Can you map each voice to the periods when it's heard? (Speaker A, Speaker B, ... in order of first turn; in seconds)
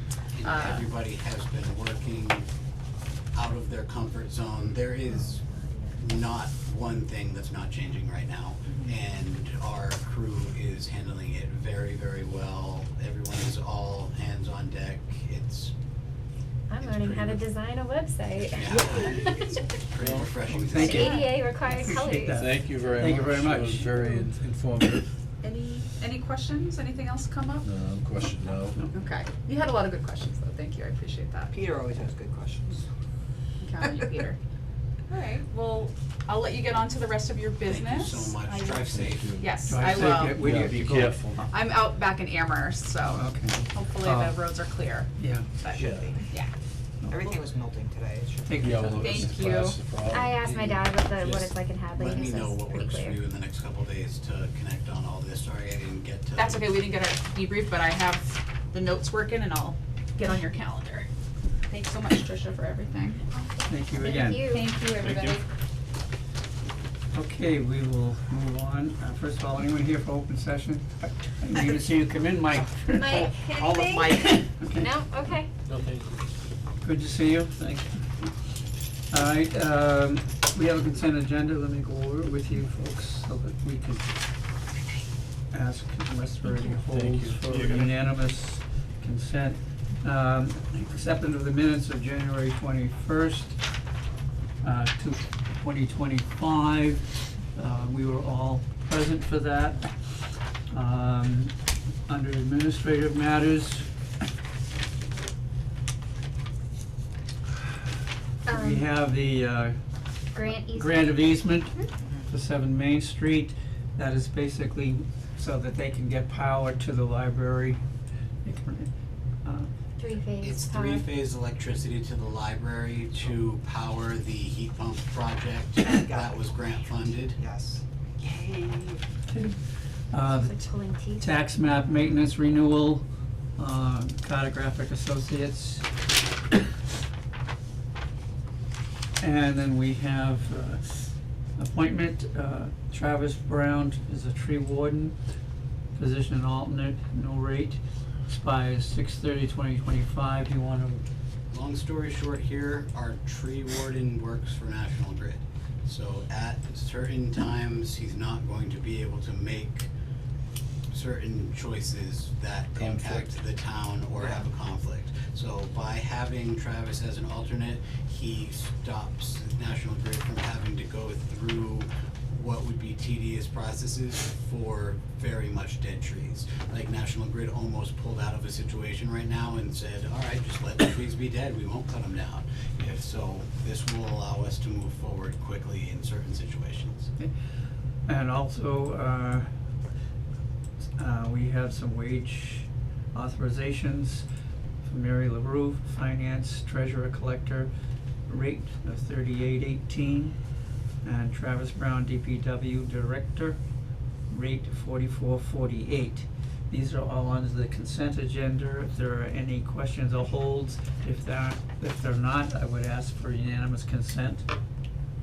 Speaker A: 0.3-2.5, 3.3-5.4, 6.0-15.7, 16.8-17.4, 18.5-21.2, 37.7-39.4, 52.0-56.8, 120.4-127.4, 151.5-159.9, 160.9-187.1
Speaker B: 0.4-0.9, 20.8-21.9, 25.4-27.7, 28.9-31.5, 33.6-34.4, 35.1-40.6, 41.5-46.5, 49.0-49.8, 56.4-61.1, 61.7-63.4, 64.4-65.4
Speaker C: 5.1-6.0, 16.7-19.5, 20.8-22.4, 50.1-53.2, 63.9-64.6, 72.9-75.5, 108.5-108.8, 110.3-111.2, 120.0-121.0, 130.3-131.2
Speaker D: 20.0-20.3, 22.3-25.1, 27.6-28.8, 38.9-41.5, 45.7-46.2, 48.6-50.6, 51.2-51.5, 86.9-87.8, 162.8-163.3
Speaker E: 20.5-24.0, 39.6-41.5, 43.1-44.4, 45.2-45.5, 47.0-47.3, 48.5-49.3, 62.9-64.4, 67.1-73.2, 74.6-74.9, 76.8-78.0, 79.1-84.1, 85.5-93.6, 94.6-99.9, 100.7-101.5, 102.1-103.9, 108.5-109.8, 110.4-117.8, 118.4-118.9, 119.5-119.7, 129.3-129.6, 130.1-133.1, 133.6-135.9, 139.2-141.0, 141.6-145.2, 145.9-151.0, 188.1-189.5, 191.0-194.3, 194.8-197.7, 198.3-200.4, 201.0-203.6, 204.3-214.5
Speaker F: 31.5-32.9, 47.1-48.6, 73.2-74.6, 112.0-112.3, 125.9-126.5, 127.2-129.0, 164.2-164.5